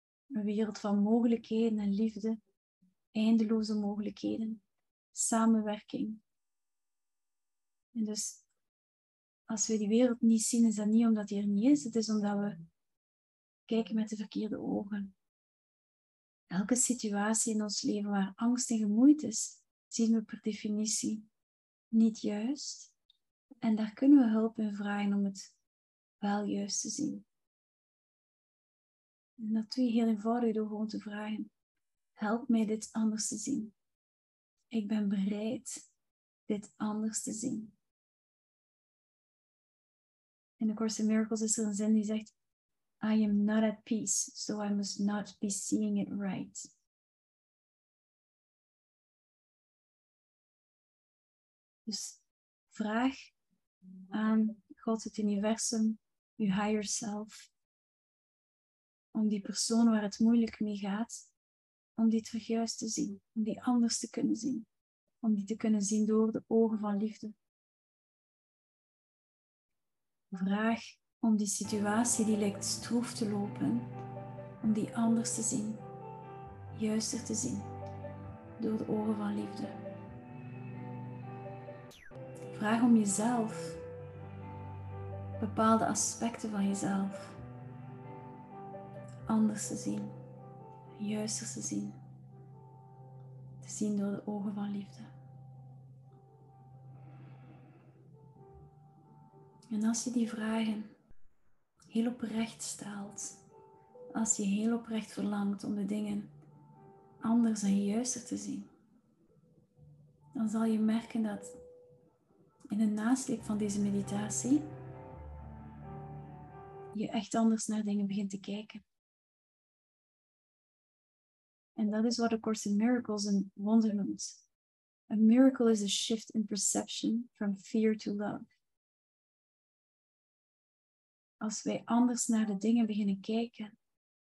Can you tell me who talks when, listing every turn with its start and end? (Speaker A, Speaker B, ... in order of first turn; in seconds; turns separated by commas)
Speaker A: 0.3-2.4, Speaker A: 3.1-6.2, Speaker A: 7.9-8.4, Speaker A: 9.5-12.7, Speaker A: 13.7-15.2, Speaker A: 16.5-21.3, Speaker A: 21.9-22.9, Speaker A: 23.6-25.5, Speaker A: 26.2-27.3, Speaker A: 29.4-31.5, Speaker A: 32.2-33.7, Speaker A: 34.7-35.9, Speaker A: 36.5-37.7, Speaker A: 40.6-42.4, Speaker A: 43.0-46.7, Speaker A: 51.9-53.3, Speaker A: 54.1-57.5, Speaker A: 59.1-61.3, Speaker A: 62.0-64.7, Speaker A: 65.2-67.4, Speaker A: 70.3-73.9, Speaker A: 74.6-75.8, Speaker A: 76.7-77.7, Speaker A: 78.6-79.8, Speaker A: 82.5-83.8, Speaker A: 85.4-87.4, Speaker A: 89.3-90.2, Speaker A: 91.0-92.0, Speaker A: 93.6-95.1, Speaker A: 99.7-100.9, Speaker A: 101.9-103.4, Speaker A: 104.1-106.3, Speaker A: 107.2-108.7, Speaker A: 110.3-111.6, Speaker A: 112.7-114.7, Speaker A: 116.9-118.8, Speaker A: 121.8-124.4, Speaker A: 125.1-128.5, Speaker A: 131.4-133.8